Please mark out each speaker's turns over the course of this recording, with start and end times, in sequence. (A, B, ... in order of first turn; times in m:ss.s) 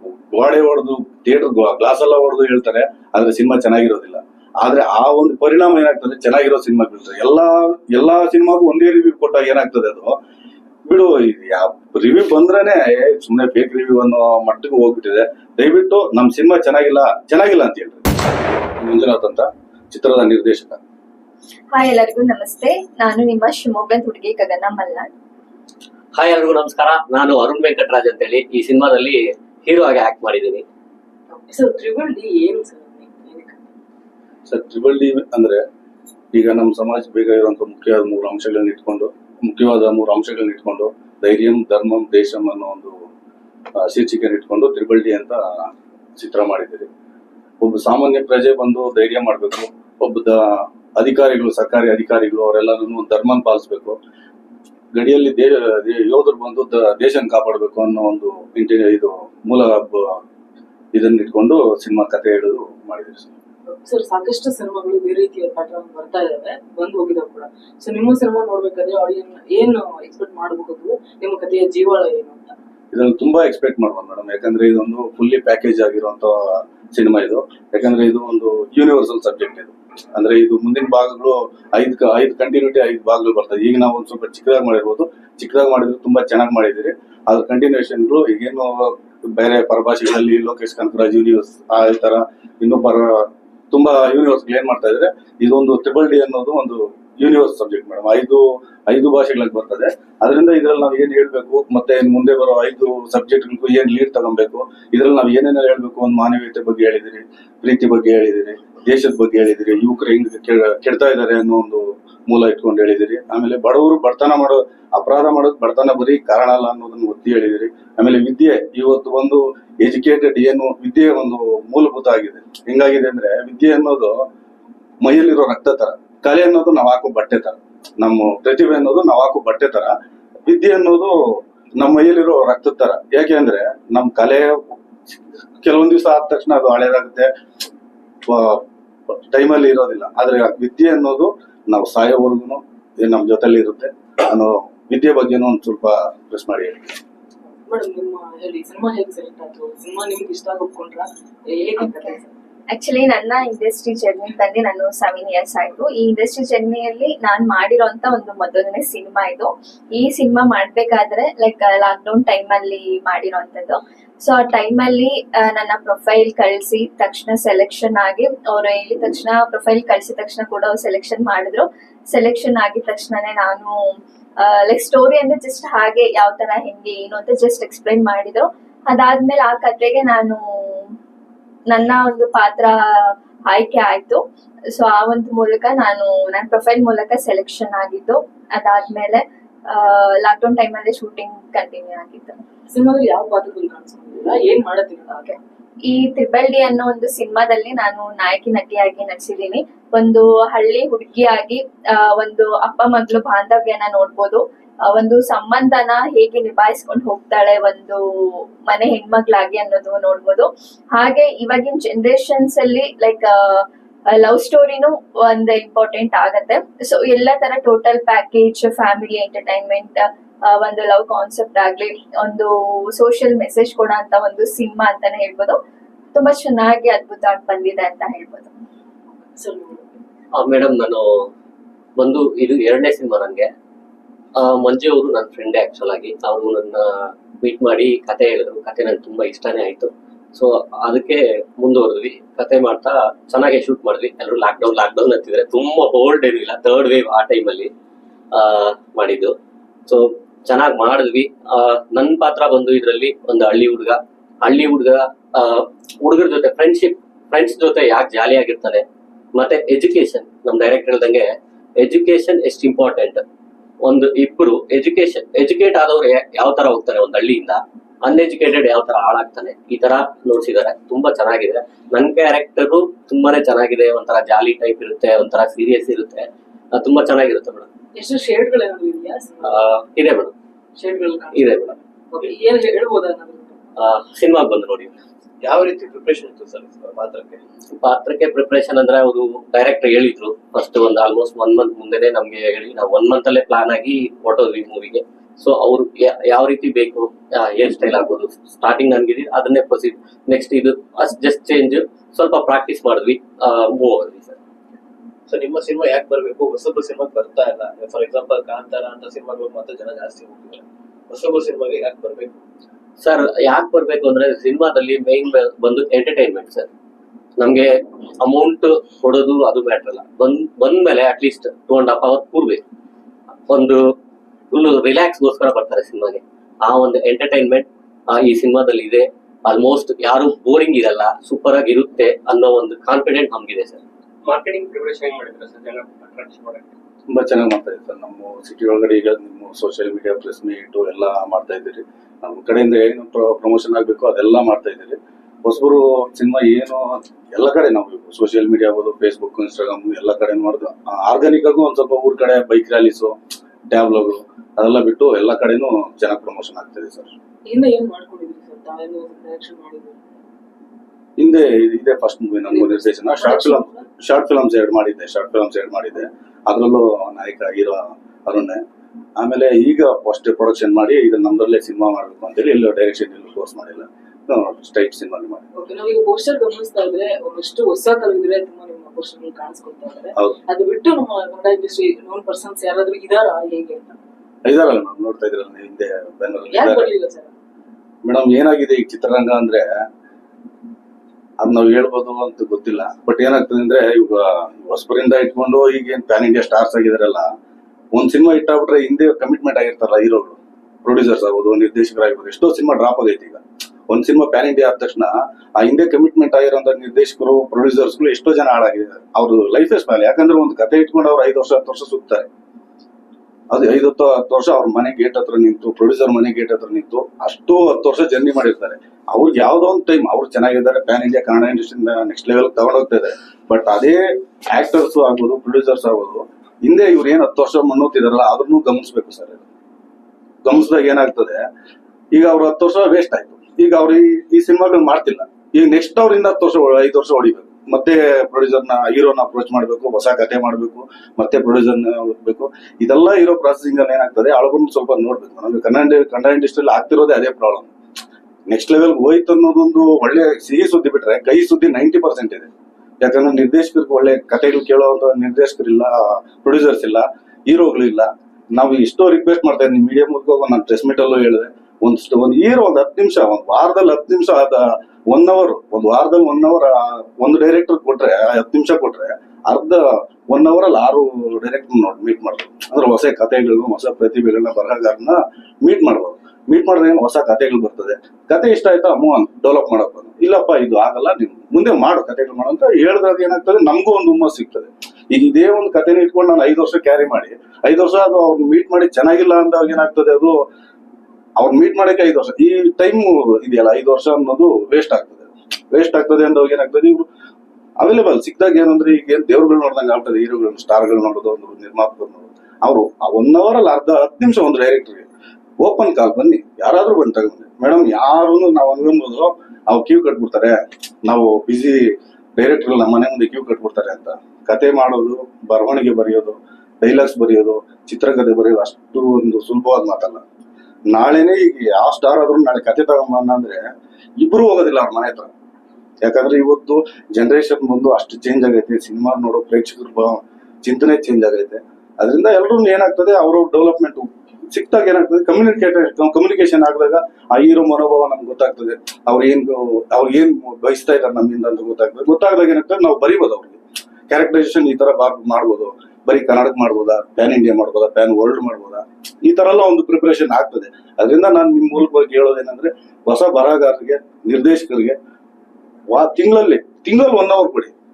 0:00.3-0:10.2 A
0:10.9-0:18.0 A
0:18.8-0:20.8 A
0:21.7-0:25.1 B
0:26.2-0:30.7 C
0:31.3-0:33.7 D
0:34.5-0:35.6 A
0:36.3-0:43.0 A
0:43.8-0:46.9 A
0:47.6-0:54.0 A
0:54.9-1:00.2 A
1:01.0-1:03.3 A
1:03.7-1:12.6 D
1:12.9-2:04.3 A
2:05.0-2:10.0 A
2:10.5-2:17.3 A
2:18.3-2:27.0 A
2:27.6-2:32.3 D
2:31.8-2:32.2 B
2:32.7-3:01.0 B
3:01.7-3:04.2 B
3:04.8-3:12.4 B
3:12.7-3:15.4 D
3:15.8-3:45.6 B
3:46.1-3:48.5 B
3:49.3-3:49.9 D
3:50.3-3:51.3 C
3:52.0-3:53.5 C
3:54.4-4:07.7 C
4:08.3-4:09.4 C
4:09.9-4:23.2 C
4:23.8-4:37.7 C
4:38.0-4:39.7 D
4:39.4-4:40.3 C
4:40.8-4:43.6 D
4:41.3-4:41.8 C
4:43.8-4:44.9 C
4:45.4-4:47.4 E
4:47.8-5:04.4 C
5:05.3-5:12.4 E
5:13.0-5:16.7 C
5:17.4-5:22.6 C
5:23.5-5:23.9 C
5:24.5-5:33.8 C
5:34.2-5:36.7 F
5:37.1-5:53.2 A
5:53.7-5:57.1 A
5:57.5-6:00.0 D
6:01.2-6:08.6 A
6:02.5-6:03.9 D
6:09.2-6:15.4 A
6:15.6-6:24.0 D
6:24.5-6:26.9 A
6:26.5-6:27.3 D
6:28.0-6:29.8 A
6:31.4-6:37.3 A
6:37.9-6:52.3 A
6:53.5-7:09.4 A
7:10.4-7:11.5 A
7:12.1-7:27.7 A
7:28.5-7:32.5 A
7:33.0-8:10.4 A
8:11.4-8:17.1 A
8:17.8-8:25.1 A
8:25.6-8:40.2 A
8:40.9-8:45.3 A
8:46.0-9:03.6 A
9:04.1-9:15.0 A
9:15.9-9:17.7 A